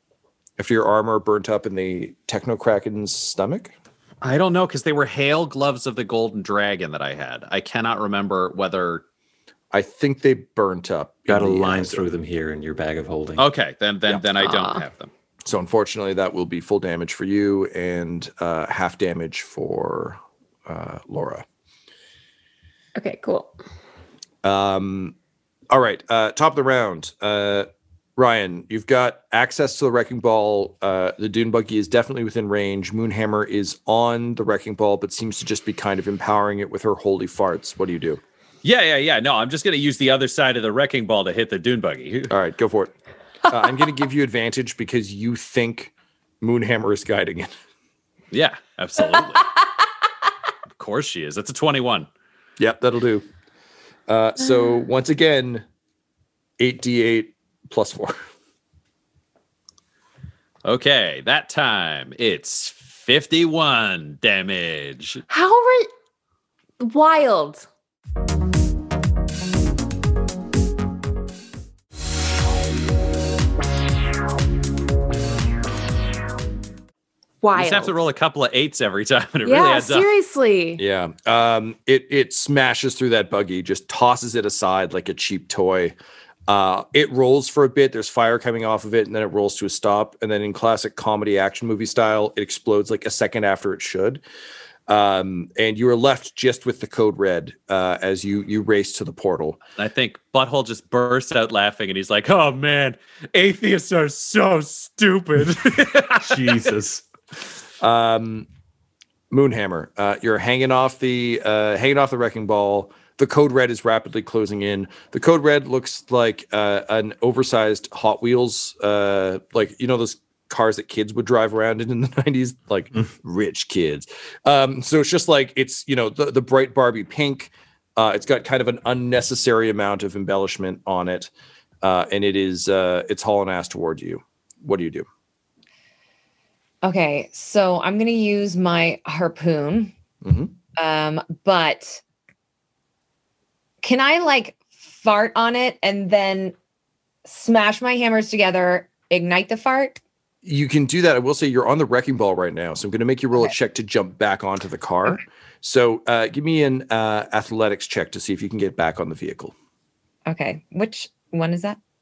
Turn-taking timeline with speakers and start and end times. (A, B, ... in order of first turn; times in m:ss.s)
0:00.6-0:03.7 A
0:04.2-0:09.0 B
0:09.7-0:12.1 A
0:11.3-0:13.4 C
0:13.4-0:15.1 B
0:14.4-0:14.8 D
0:15.4-0:21.4 A
0:23.0-0:23.5 D
0:24.4-0:25.2 A
0:25.7-0:38.2 A
0:38.6-0:42.3 B
0:42.3-0:42.9 A
0:43.5-0:47.5 A
0:48.3-0:49.5 B
0:50.8-0:52.1 B
0:52.6-0:53.2 A
0:54.1-0:55.6 A
0:56.6-0:58.2 A
1:00.6-1:05.2 B
1:05.3-1:05.9 D
1:06.8-1:07.6 D
1:17.4-1:17.9 D
1:17.5-1:20.1 B
1:19.4-1:20.8 D
1:20.8-1:26.0 A
1:26.5-1:34.2 A
1:34.9-1:39.6 A
1:39.8-1:46.7 B
1:46.2-1:47.0 C
1:47.8-1:48.5 A
1:49.3-2:11.3 A
2:11.8-2:15.1 A
2:16.8-2:19.9 E
2:20.2-2:20.5 A
2:20.8-2:22.0 E
2:23.8-2:26.5 E
2:27.2-2:30.0 E
2:30.4-2:39.5 A
2:40.2-2:41.8 E